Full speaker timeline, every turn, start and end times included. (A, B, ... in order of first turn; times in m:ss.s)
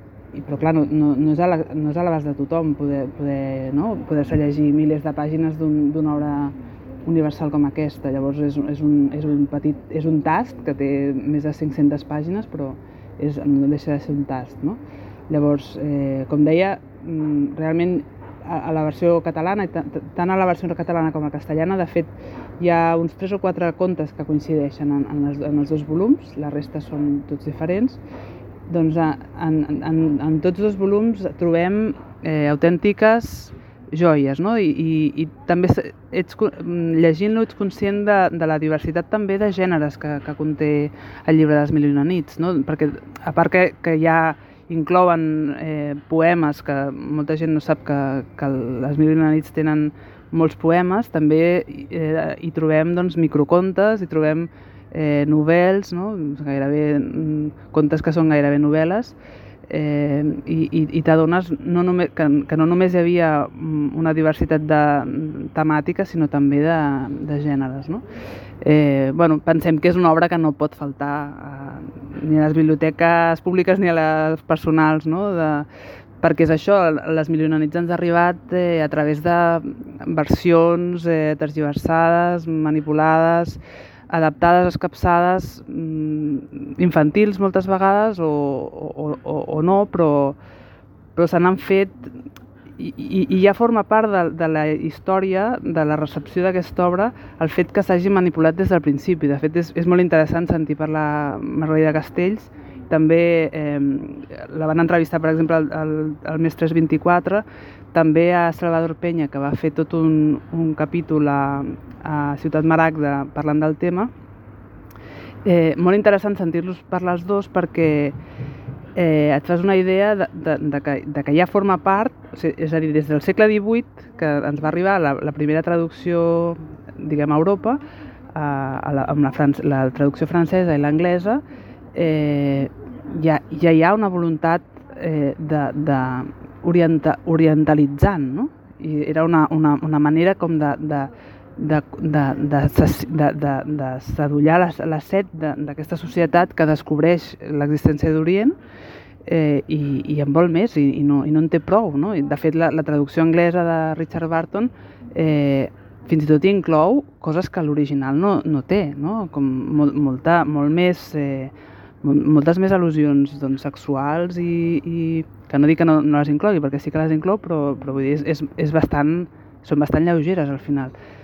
0:00.3-0:28.0 A
0:28.7-1:08.0 A
1:08.6-1:15.7 A
1:16.2-1:23.6 A
1:24.1-1:30.4 A
1:31.2-1:32.2 A
1:32.8-1:54.1 A
1:55.4-1:58.2 A
1:59.0-2:07.8 A
2:08.3-2:11.4 A
2:11.9-2:28.6 A
2:29.2-2:51.0 A